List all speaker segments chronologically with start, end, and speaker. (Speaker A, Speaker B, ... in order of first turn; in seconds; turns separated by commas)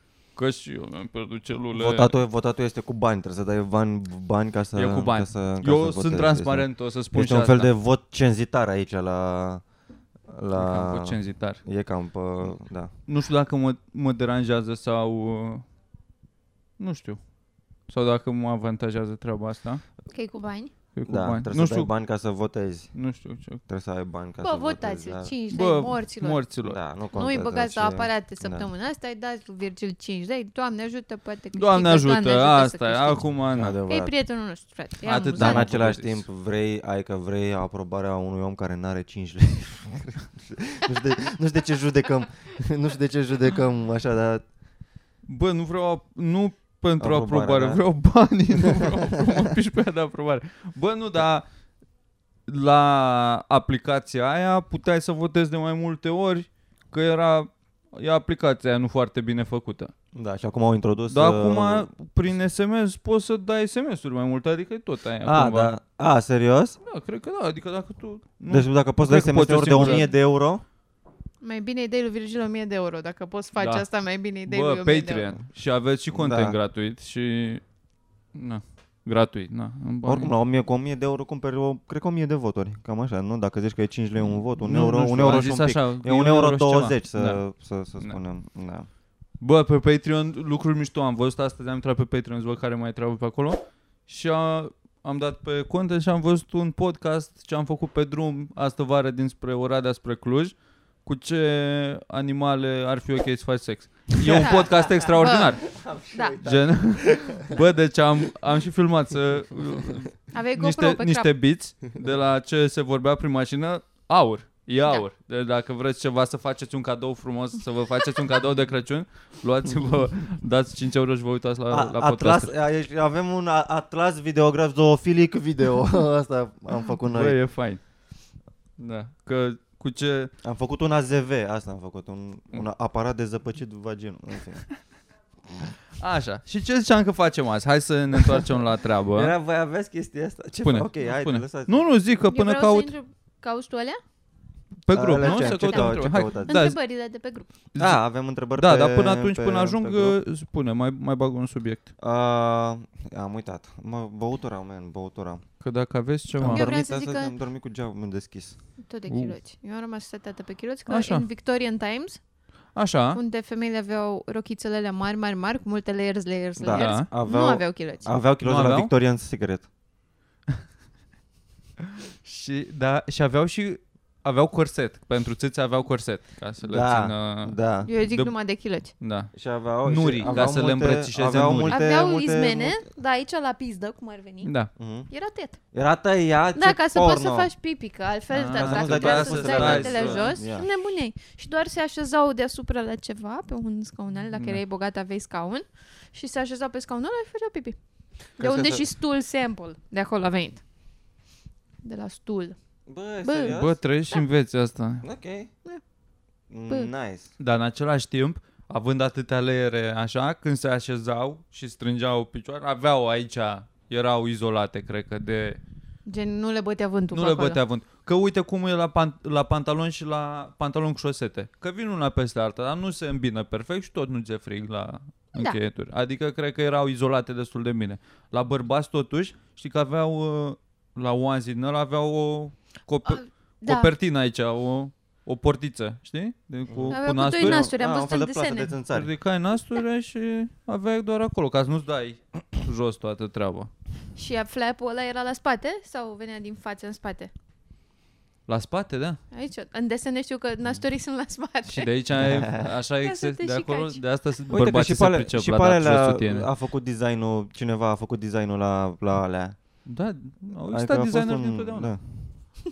Speaker A: 0.4-2.1, Speaker B: 1.7-9.6, Speaker A: 4.8-7.7, Speaker B: 10.3-12.9, Speaker A: 10.6-11.6, Speaker A: 13.1-15.6, Speaker A: 16.8-17.2, Speaker A: 17.9-19.8, Speaker C: 20.1-20.7, Speaker A: 20.9-21.9, Speaker B: 21.1-22.9, Speaker A: 22.9-23.6, Speaker B: 23.7-25.3, Speaker C: 24.4-26.4, Speaker A: 25.5-26.8, Speaker B: 26.6-28.7, Speaker C: 27.1-33.2, Speaker A: 31.6-33.8, Speaker B: 33.5-34.1, Speaker C: 33.9-35.7, Speaker A: 35.0-36.2, Speaker B: 35.4-44.4, Speaker A: 45.3-51.5, Speaker B: 47.0-47.8, Speaker A: 52.5-59.9, Speaker B: 60.1-61.9, Speaker A: 61.1-65.8, Speaker B: 65.2-66.8, Speaker A: 66.8-70.1, Speaker B: 68.5-70.6, Speaker C: 69.8-70.1, Speaker C: 71.4-75.3, Speaker A: 73.6-77.6, Speaker B: 76.1-76.6, Speaker A: 78.3-80.3, Speaker B: 80.0-88.9, Speaker A: 84.4-87.4, Speaker A: 89.4-105.8, Speaker B: 104.4-104.8, Speaker C: 104.4-105.6, Speaker B: 105.7-107.6, Speaker C: 106.1-106.4, Speaker A: 106.4-122.5, Speaker C: 110.3-111.3, Speaker C: 114.8-115.1, Speaker B: 121.7-127.4, Speaker A: 127.1-127.8, Speaker A: 128.8-130.3, Speaker B: 130.4-134.7, Speaker A: 136.0-139.3, Speaker B: 139.1-141.8, Speaker A: 140.6-142.9, Speaker C: 142.3-144.0, Speaker A: 144.9-146.8, Speaker B: 144.9-146.6, Speaker C: 145.2-147.5, Speaker A: 147.7-151.8, Speaker B: 147.8-150.2, Speaker B: 152.0-155.4, Speaker A: 155.6-156.7, Speaker B: 156.4-158.6, Speaker C: 156.4-157.4, Speaker C: 158.8-162.2, Speaker A: 159.1-159.4, Speaker A: 160.9-161.3, Speaker A: 162.8-163.2, Speaker C: 163.1-168.1, Speaker B: 166.6-169.7, Speaker A: 166.7-167.1, Speaker A: 168.4-168.9, Speaker A: 172.2-177.6, Speaker B: 176.6-177.9, Speaker C: 177.8-178.9, Speaker A: 178.1-181.8, Speaker B: 179.3-182.8, Speaker C: 181.7-184.5, Speaker A: 184.4-184.7, Speaker B: 184.8-185.1, Speaker C: 185.1-185.6, Speaker B: 185.7-187.5, Speaker C: 186.6-197.8, Speaker A: 188.3-190.3, Speaker B: 188.5-190.7, Speaker A: 194.3-194.6, Speaker C: 198.4-200.6, Speaker B: 198.4-198.8, Speaker C: 201.8-202.6, Speaker B: 202.9-203.8, Speaker C: 203.2-203.6, Speaker A: 203.5-205.1, Speaker B: 205.0-205.5, Speaker B: 206.5-207.3, Speaker A: 207.4-215.6, Speaker C: 216.1-217.6, Speaker A: 217.1-237.7, Speaker C: 233.1-233.9, Speaker B: 236.7-239.1, Speaker C: 236.9-238.8, Speaker A: 238.9-243.7, Speaker C: 244.2-247.3, Speaker A: 248.5-249.2, Speaker C: 249.3-251.9, Speaker A: 251.7-256.5, Speaker B: 252.2-252.7, Speaker C: 253.0-254.0, Speaker B: 254.5-259.6, Speaker A: 259.9-261.9, Speaker B: 260.7-262.0